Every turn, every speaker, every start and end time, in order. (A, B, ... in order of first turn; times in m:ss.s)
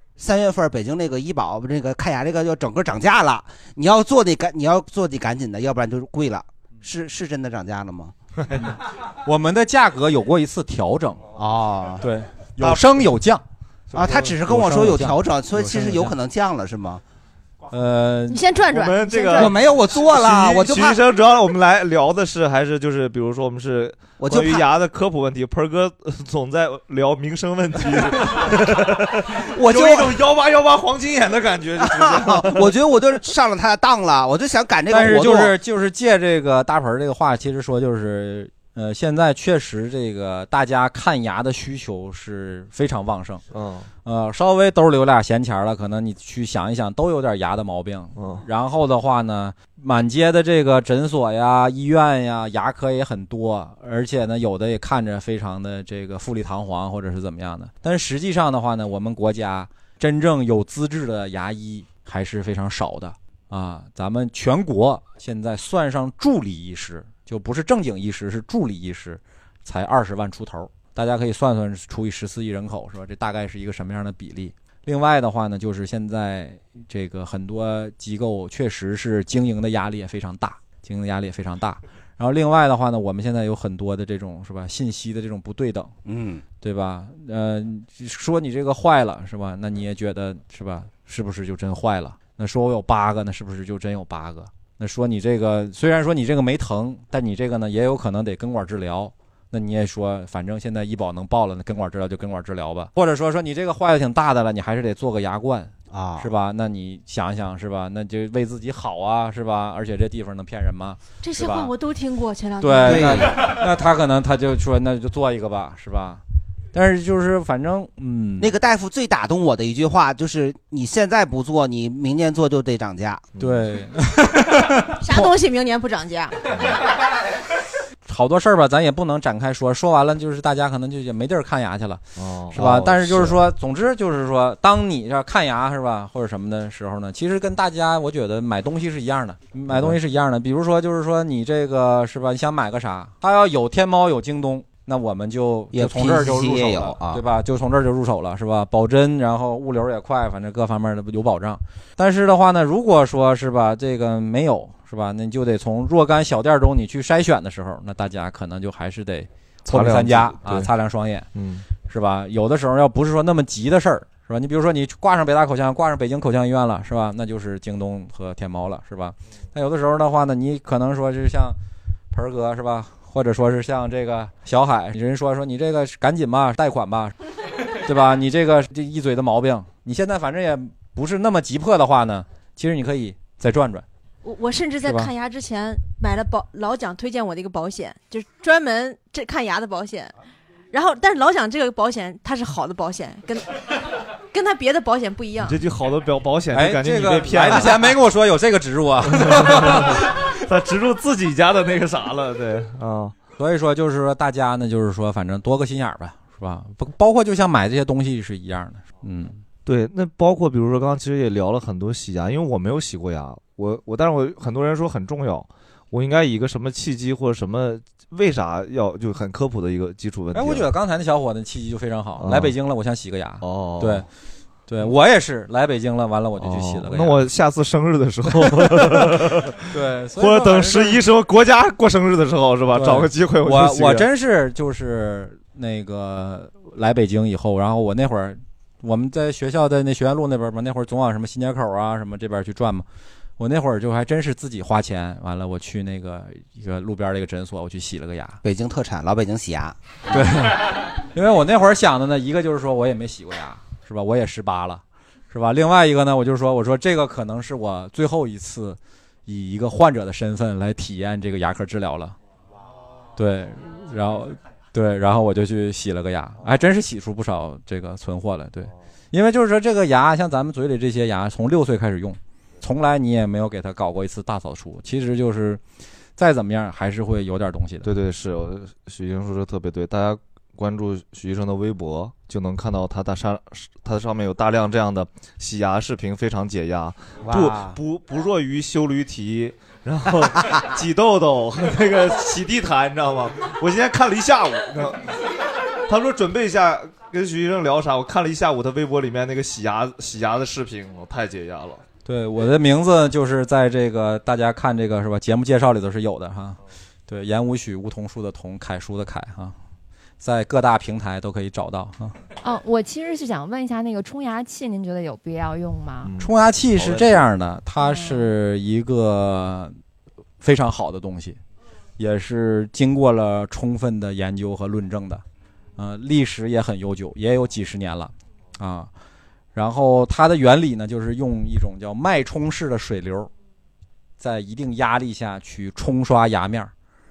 0:00.2-0:08.1 A
0:08.4-0:08.7 B
0:09.2-0:11.2 C
0:11.4-0:12.0 A
0:12.0-0:13.4 C
0:12.6-0:12.9 B
0:13.9-0:14.4 B
0:13.9-0:17.0 A
0:14.4-0:16.1 C
0:17.7-0:18.4 C
0:18.3-0:19.5 D
0:18.7-0:32.7 B
0:19.3-0:21.0 A
0:24.2-0:24.6 A
0:29.5-0:30.2 A
0:31.8-0:35.5 A
0:34.9-0:43.4 C
0:43.5-0:43.9 B
0:44.0-1:25.9 C
0:48.2-0:48.4 B
1:26.0-1:26.4 A
1:26.6-1:51.7 C
1:45.9-1:46.3 A
1:51.2-1:53.2 D
1:52.6-1:56.2 C
1:52.9-1:53.3 A
1:56.7-1:58.5 C
1:58.4-2:03.3 A
2:03.3-2:03.7 B
2:03.4-2:05.0 C
2:05.0-2:06.4 D
2:06.5-2:06.8 B
2:08.0-2:12.0 C
2:12.2-2:13.4 B
2:12.5-2:41.3 C
2:19.7-2:20.0 B
2:25.7-2:27.2 A
2:39.6-2:40.7 B
2:41.3-2:41.6 B
2:41.9-2:51.6 C
2:52.1-2:57.1 C
2:57.7-3:03.8 C
3:04.2-3:10.1 D
3:04.8-3:05.1 C
3:10.7-3:13.6 D
3:14.3-3:15.6 D
3:15.4-3:18.0 B
3:16.5-3:20.1 C
3:19.1-3:23.1 B
3:23.4-3:29.4 C
3:29.6-3:40.7 B
3:40.3-3:44.0 C
3:42.2-3:42.5 B
3:43.4-3:44.0 B
3:44.7-3:47.3 C
3:46.4-3:49.6 B
3:48.4-3:49.0 C
3:49.7-3:51.0 C
3:50.2-3:54.0 B
3:52.7-4:02.8 C
4:03.4-4:08.4 C
4:08.4-4:09.7 A
4:10.1-4:22.2 C
4:23.2-4:35.6 C
4:36.2-4:37.9 C
4:37.8-4:55.1 B
4:47.2-4:47.8 A
4:55.8-5:01.8 B
5:02.0-5:09.5 C
5:10.2-5:12.1 C
5:12.4-5:16.1 E
5:16.0-5:17.2 B
5:16.2-5:19.8 C
5:17.8-5:18.3 E
5:20.4-5:21.4 C
5:22.0-5:25.2 C
5:25.8-5:28.9 C
5:29.5-5:33.3 C
5:34.2-5:36.7 C